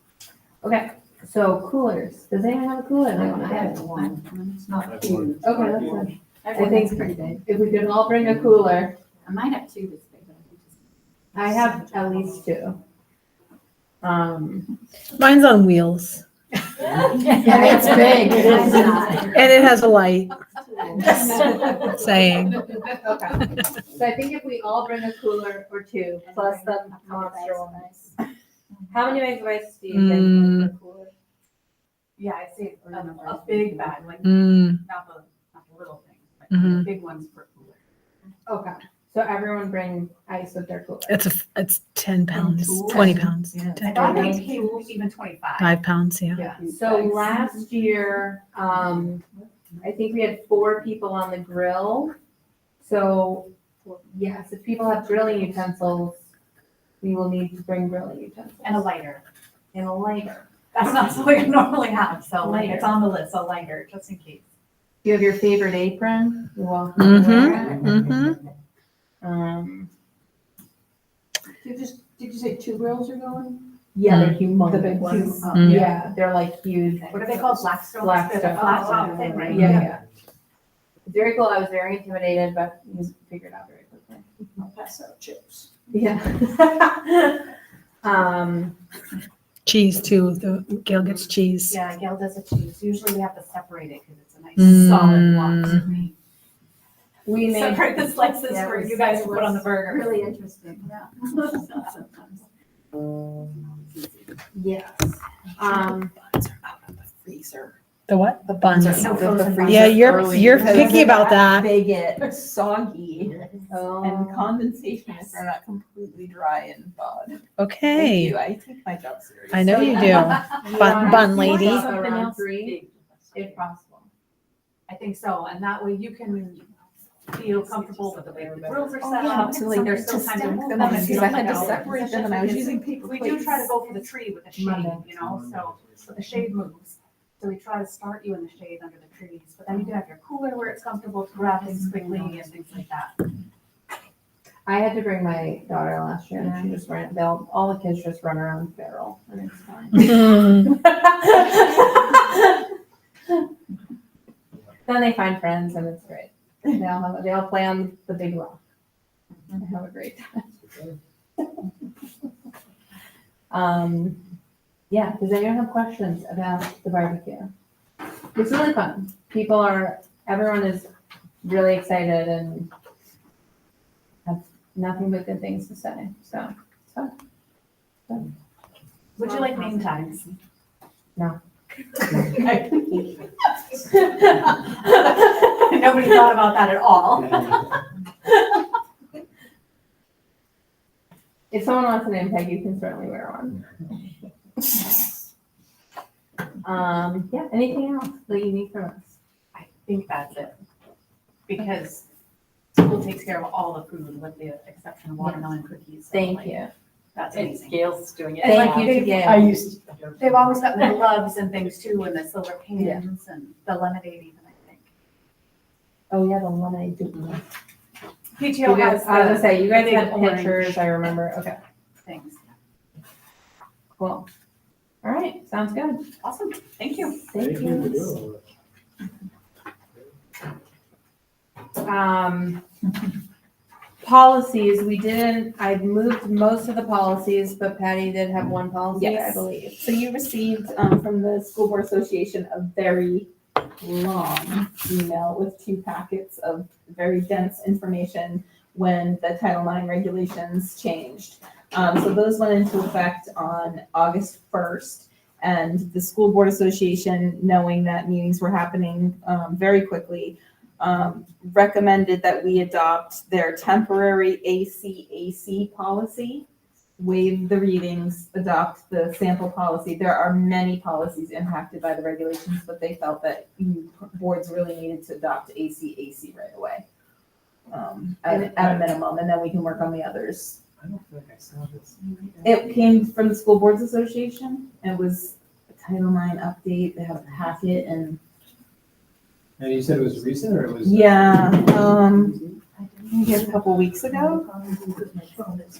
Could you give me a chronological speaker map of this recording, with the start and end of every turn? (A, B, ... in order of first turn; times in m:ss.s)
0:00.6-0:03.9 A
0:03.1-0:05.8 B
0:04.9-0:06.0 C
0:05.4-0:09.0 A
0:06.5-0:07.1 B
0:09.3-0:10.7 B
0:11.3-0:12.8 A
0:14.0-0:14.7 A
0:15.2-0:16.2 D
0:17.0-0:19.4 A
0:17.2-0:19.4 B
0:19.3-0:20.3 D
0:20.9-0:21.7 B
0:21.0-0:21.9 A
0:21.9-0:22.6 D
0:22.7-0:28.0 A
0:26.9-0:28.0 E
0:28.9-0:31.1 A
0:29.9-0:30.7 D
0:32.2-0:37.8 B
0:32.9-0:33.7 A
0:34.2-0:34.8 D
0:38.5-0:41.2 A
0:41.1-0:44.2 D
0:42.9-0:44.4 A
0:43.8-0:45.8 B
0:45.6-0:46.4 D
0:46.4-0:47.2 B
0:46.4-0:49.2 A
0:49.8-0:52.2 A
0:52.8-0:53.5 A
0:54.1-0:56.2 A
0:57.0-0:58.9 A
0:58.6-0:59.2 B
0:59.7-1:00.5 A
1:00.7-1:04.4 B
1:02.4-1:02.9 A
1:05.0-1:07.9 A
1:07.0-1:08.4 D
1:09.2-1:09.9 A
1:11.6-1:16.1 F
1:14.0-1:20.0 A
1:17.1-1:19.9 B
1:19.5-1:19.8 F
1:21.1-1:24.2 A
1:24.7-1:25.0 F
1:25.9-1:27.4 A
1:28.0-1:28.8 A
1:29.7-1:31.8 D
1:31.7-1:36.1 B
1:34.6-1:35.3 D
1:37.3-1:42.2 A
1:37.4-1:40.2 B
1:40.8-1:42.3 B
1:43.6-1:44.3 B
1:44.5-1:46.1 A
1:46.6-1:47.7 F
1:48.1-1:51.7 D
1:48.6-1:50.9 A
1:48.9-1:50.9 B
1:49.0-1:53.4 F
1:53.7-1:54.5 A
1:54.0-2:00.4 F
1:57.6-1:58.4 D
1:59.5-2:01.9 D
1:59.7-2:02.8 A
2:01.0-2:02.4 B
2:03.3-2:04.1 A
2:04.9-2:06.7 B
2:07.3-2:23.2 B
2:09.0-2:13.7 F
2:14.6-2:15.0 A
2:21.8-2:22.4 A
2:24.7-2:32.6 A
2:26.4-2:26.6 F
2:34.9-2:38.6 A
2:39.5-2:40.4 A
2:43.5-2:44.2 A
2:44.9-2:47.5 A
2:48.4-2:50.9 A
2:51.4-2:52.7 A
2:54.2-2:57.1 A
2:59.2-3:00.4 B
2:59.3-2:59.7 A
3:02.1-3:02.8 A
3:03.9-3:07.6 B
3:11.5-3:13.6 A
3:16.6-3:19.1 A
3:19.5-3:20.6 B
3:21.5-3:22.0 B
3:22.8-3:26.6 B
3:26.1-3:26.7 A
3:27.2-3:27.8 B
3:27.4-3:28.8 E
3:28.4-3:29.5 A
3:28.4-3:29.3 B
3:29.0-3:29.8 D
3:30.2-3:34.8 B
3:32.8-3:33.0 A
3:36.1-3:37.4 A
3:38.4-3:40.8 B
3:38.6-3:41.6 A
3:42.0-3:42.4 B
3:44.0-3:44.3 A
3:45.0-3:46.0 A
3:46.2-3:47.3 B
3:47.3-3:48.2 A
3:47.4-3:48.4 C
3:51.8-3:52.6 A
3:54.0-3:59.8 A
3:58.9-4:26.5 F
4:27.0-4:36.8 F
4:37.7-4:40.6 F
4:40.8-4:41.9 C
4:42.4-4:48.2 F
4:49.6-4:51.0 C
4:50.8-4:52.4 F
4:53.1-4:54.5 F